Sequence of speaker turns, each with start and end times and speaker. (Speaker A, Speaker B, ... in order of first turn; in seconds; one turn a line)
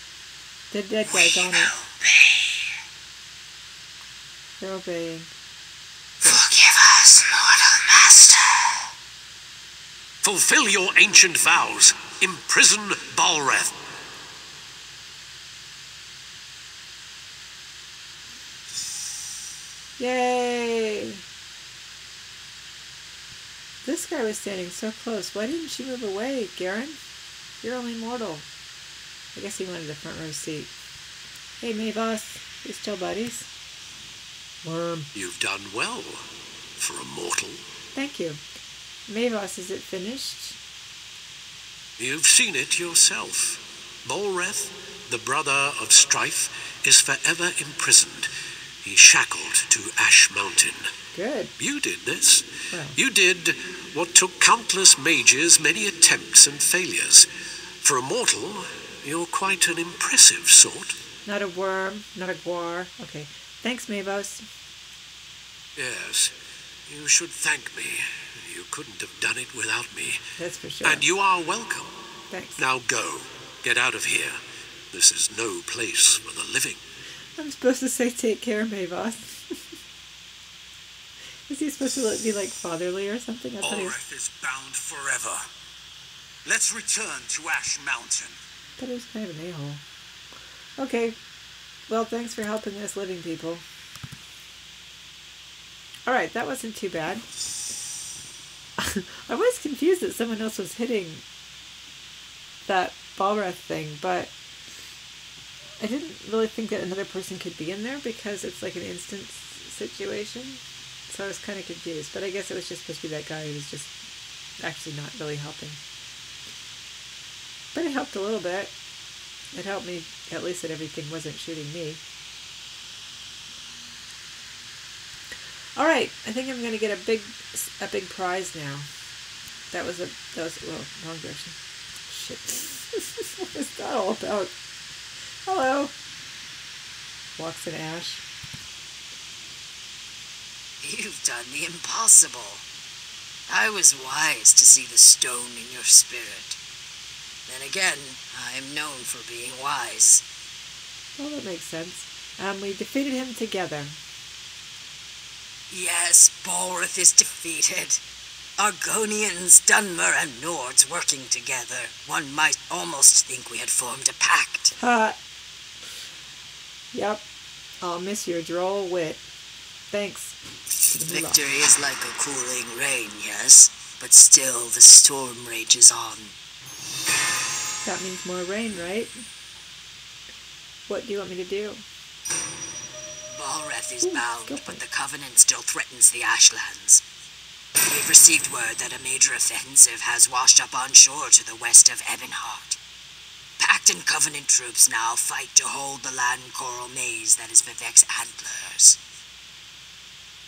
Speaker A: 0.7-1.7
Speaker B: 1.1-2.7
Speaker A: 4.6-5.3
Speaker B: 6.2-8.9
Speaker C: 10.2-13.8
Speaker A: 20.0-21.2
Speaker A: 23.8-27.0
Speaker A: 27.6-28.5
Speaker A: 29.3-30.7
Speaker A: 31.6-33.5
Speaker A: 34.6-35.1
Speaker C: 35.1-36.2
Speaker C: 36.8-37.6
Speaker A: 37.9-38.4
Speaker A: 39.1-40.6
Speaker C: 42.0-48.3
Speaker C: 48.8-50.9
Speaker A: 51.1-51.5
Speaker C: 51.6-57.3
Speaker A: 52.7-53.0
Speaker C: 57.8-61.0
Speaker A: 61.2-64.5
Speaker C: 65.8-66.3
Speaker C: 66.9-70.2
Speaker A: 70.4-71.0
Speaker C: 70.8-71.9
Speaker A: 72.3-72.6
Speaker C: 72.6-74.4
Speaker C: 74.9-76.8
Speaker A: 77.4-79.6
Speaker A: 81.5-84.0
Speaker D: 83.6-85.4
Speaker D: 86.4-88.4
Speaker A: 88.8-89.8
Speaker A: 90.8-91.2
Speaker A: 91.9-93.7
Speaker A: 96.1-97.2
Speaker A: 98.8-101.2
Speaker A: 102.7-104.3
Speaker A: 105.8-113.9
Speaker A: 114.6-115.8
Speaker A: 117.7-118.7
Speaker A: 119.5-122.0
Speaker A: 125.8-128.9
Speaker A: 129.7-134.5
Speaker A: 135.4-135.9
Speaker A: 137.4-138.2
Speaker B: 140.8-142.6
Speaker B: 143.5-146.6
Speaker B: 147.5-150.2
Speaker A: 151.2-154.0
Speaker B: 155.7-158.0
Speaker B: 158.6-164.7
Speaker A: 164.8-165.2
Speaker A: 166.9-167.2
Speaker A: 167.8-169.2
Speaker A: 169.9-170.4
Speaker A: 170.9-171.4
Speaker B: 171.0-176.3
Speaker A: 177.8-179.2
Speaker A: 180.9-181.8
Speaker B: 183.3-187.0
Speaker A: 184.0-184.8
Speaker B: 187.8-192.8
Speaker B: 193.6-199.0